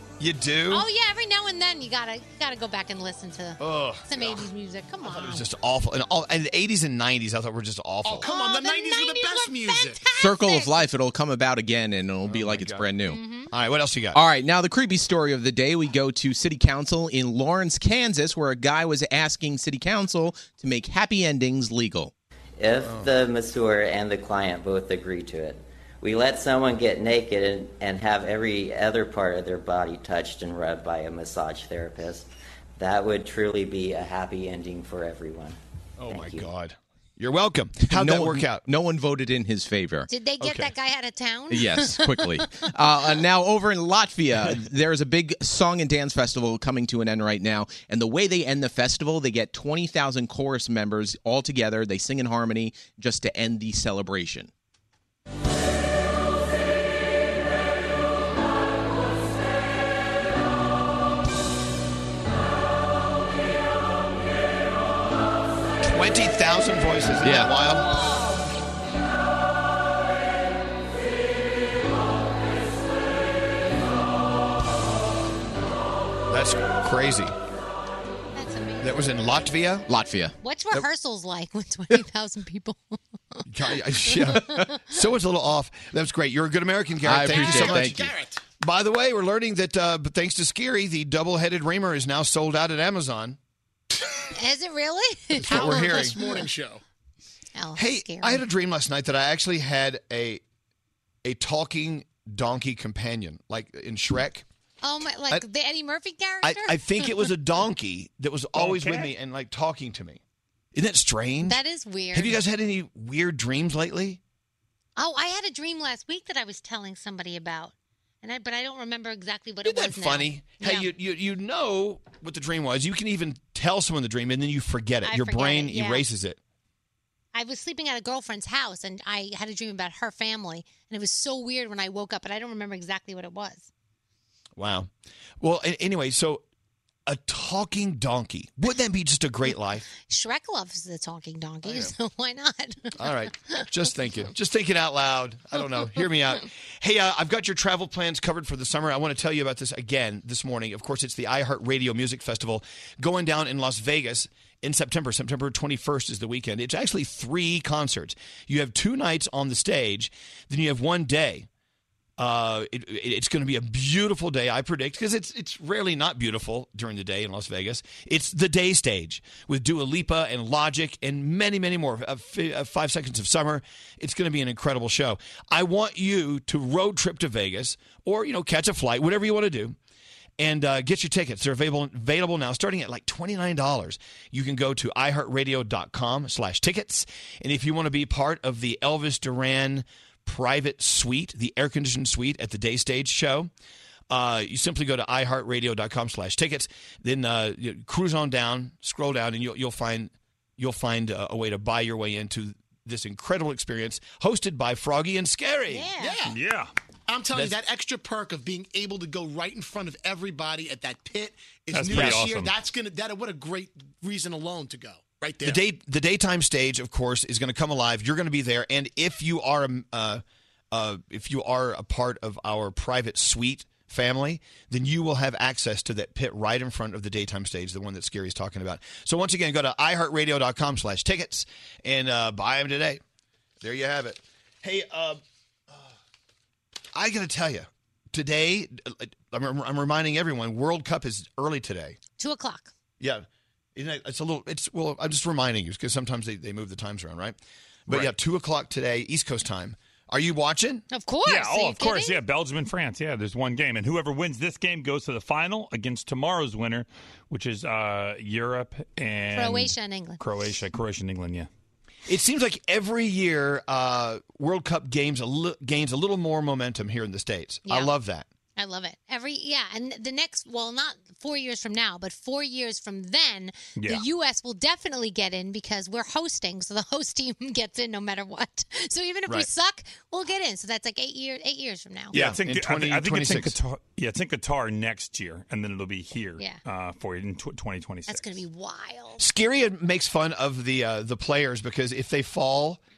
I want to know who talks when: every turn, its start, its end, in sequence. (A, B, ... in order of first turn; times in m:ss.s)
0:00.2-0:00.8 A
0:00.7-0:05.5 B
0:03.6-0:04.5 A
0:05.0-0:08.3 A
0:08.0-0:10.0 C
0:08.2-0:10.9 B
0:10.1-0:13.2 D
0:12.2-0:12.9 A
0:13.0-0:13.5 B
0:13.5-0:14.2 A
0:14.1-0:22.1 D
0:22.6-0:35.6 E
0:22.8-0:23.1 A
0:36.0-0:38.6 A
0:37.9-0:40.1 D
0:40.1-0:42.6 B
0:40.4-0:40.7 A
0:41.5-0:54.5 D
1:05.8-1:07.9 A
1:07.2-1:07.5 D
1:07.6-1:08.5 B
1:16.3-1:17.3 A
1:18.3-1:19.2 B
1:18.8-1:19.8 A
1:19.9-1:20.3 D
1:20.4-1:23.4 B
1:23.5-1:28.1 A
1:24.1-1:24.8 B
1:27.0-1:28.0 D
1:27.2-1:28.4 C
1:28.6-1:33.4 A
1:34.4-1:35.9 B
1:35.4-1:36.3 A
1:35.4-1:36.8 C
1:37.6-1:38.4 B
1:37.8-1:40.4 A
1:41.2-1:44.4 A
1:44.8-1:47.3 B
1:46.4-1:50.2 A
1:48.5-1:49.1 F
1:50.7-1:51.6 A
1:51.4-1:52.4 B
1:52.1-1:54.2 A
1:55.0-2:00.9 B
1:59.6-2:06.4 A
2:05.0-2:06.0 B
2:07.3-2:13.7 B
2:14.6-2:14.9 A
2:15.4-2:16.4 A
2:17.1-2:19.9 A
2:19.9-2:23.6 B
2:21.6-2:21.9 A
2:23.0-2:41.5 A
2:42.2-2:59.8 A
3:00.4-3:13.5 A
3:14.1-3:25.9 A
3:25.7-3:26.2 B
3:26.2-3:26.7 F
3:27.1-3:35.6 C
3:31.7-3:32.5 F
3:31.9-3:32.2 A
3:35.4-3:53.0 A
3:53.6-3:55.2 A
3:56.9-4:02.0 A
4:02.2-4:02.7 B
4:03.0-4:10.8 A
4:10.9-4:12.2 B
4:11.2-4:21.5 F
4:19.3-4:20.2 B
4:22.1-4:28.3 A
4:27.6-4:27.9 B
4:28.6-4:42.2 B
4:33.8-4:34.0 F
4:42.1-4:43.5 A
4:42.1-4:48.4 F
4:48.1-4:49.2 B
4:49.2-4:52.8 A